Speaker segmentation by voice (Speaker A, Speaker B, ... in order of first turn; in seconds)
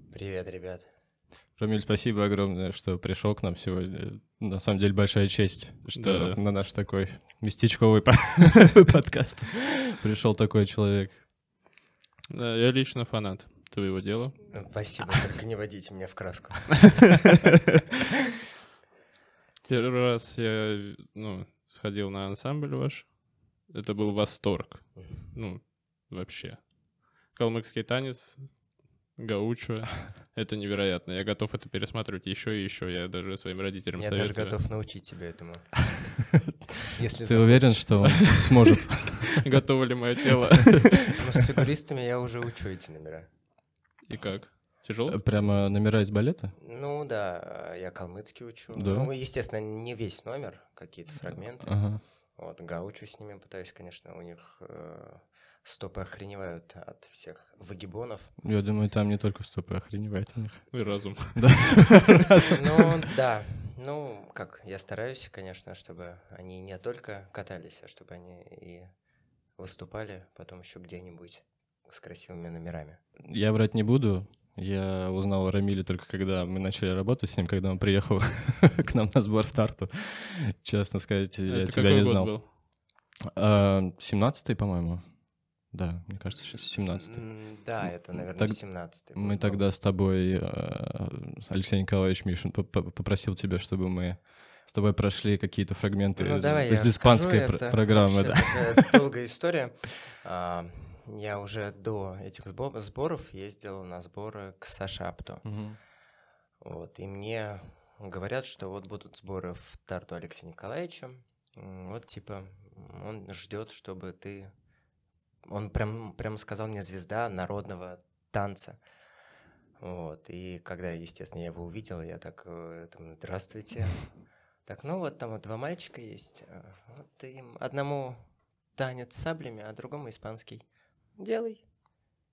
Speaker A: 0.1-0.9, 14.5-17.1, 34.0-36.2, 36.9-38.5, 41.1-43.3, 46.6-58.3, 62.5-68.9, 69.6-73.0, 86.9-89.6, 96.2-105.5, 106.6-114.5, 115.4-118.8, 119.8-124.1, 124.7-128.2, 128.7-130.6, 131.2-131.6
Speaker B: 1.6-11.2, 37.3-39.2, 45.1-46.5, 48.7-49.1, 51.3-52.0, 58.4-62.6, 73.2-82.5, 83.2-99.0, 105.4-105.8
Speaker C: 6.0-6.4, 12.3-14.7, 19.6-34.6, 39.2-41.2, 44.0-45.2, 60.7-62.0, 81.5-82.5